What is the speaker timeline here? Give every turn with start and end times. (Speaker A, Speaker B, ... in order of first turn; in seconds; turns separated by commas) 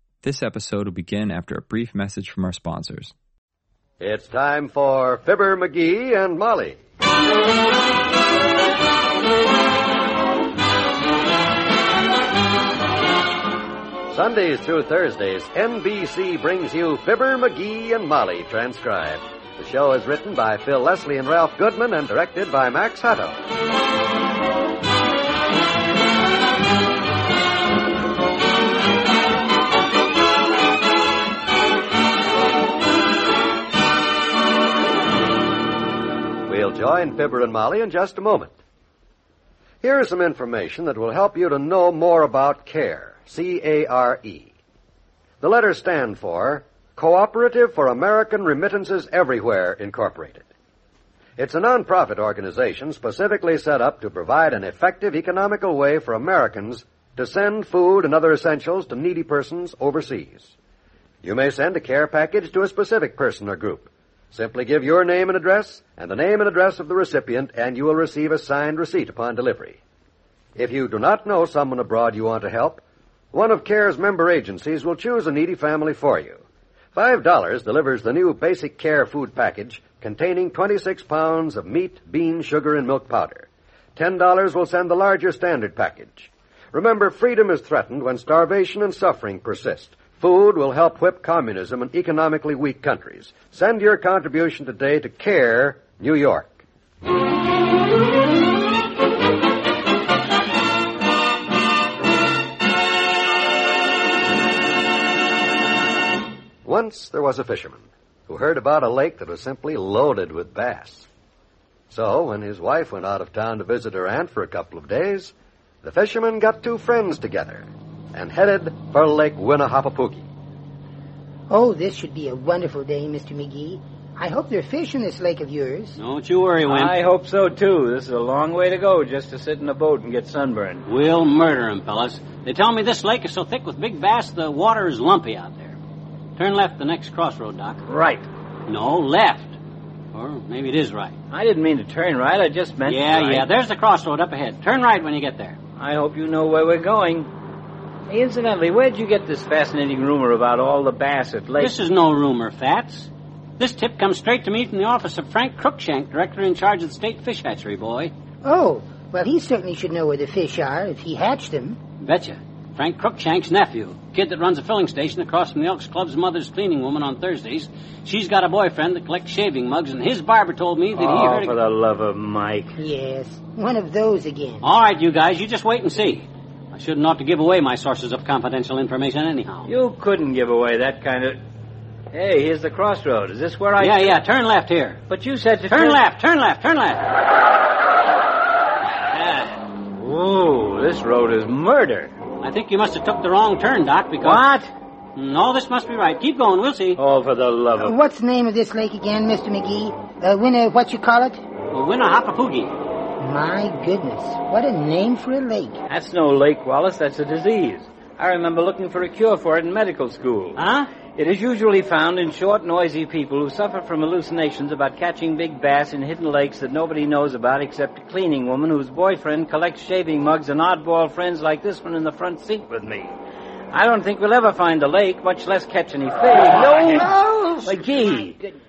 Speaker A: 0.2-3.1, Speaker B: 4.0-6.8, Speaker B: 14.1-23.4, Speaker B: 36.5-38.5, Speaker B: 39.8-44.5, Speaker B: 45.4-50.5, Speaker B: 51.4-60.5, Speaker B: 61.2-69.8, Speaker B: 70.6-72.8, Speaker B: 73.3-76.4, Speaker B: 77.0-96.6, Speaker B: 106.7-111.1, Speaker B: 111.9-120.3, Speaker C: 121.5-126.0, Speaker D: 126.0-127.0, Speaker E: 126.7-130.8, Speaker D: 130.9-135.8, Speaker D: 136.4-137.8, Speaker E: 137.9-138.3, Speaker D: 138.7-139.6, Speaker D: 140.1-141.2, Speaker E: 141.3-143.5, Speaker D: 142.9-145.6, Speaker E: 145.8-147.3, Speaker E: 148.1-151.7, Speaker D: 151.6-158.1, Speaker C: 158.4-161.8, Speaker D: 162.0-171.6, Speaker E: 171.0-172.8, Speaker C: 172.8-174.6, Speaker D: 174.6-179.7, Speaker E: 179.7-181.4, Speaker E: 182.1-184.2, Speaker D: 183.8-185.0, Speaker E: 185.1-186.0, Speaker D: 185.7-187.1, Speaker D: 189.0-189.6, Speaker E: 189.9-192.1, Speaker D: 192.4-194.5, Speaker E: 194.2-194.7, Speaker D: 195.2-197.0, Speaker E: 197.0-198.0, Speaker C: 197.8-201.4, Speaker D: 201.7-202.8, Speaker C: 203.2-205.8, Speaker E: 205.9-210.6, Speaker D: 210.6-210.9, Speaker E: 211.2-223.1, Speaker E: 223.7-228.3, Speaker C: 226.4-228.6, Speaker D: 226.8-227.1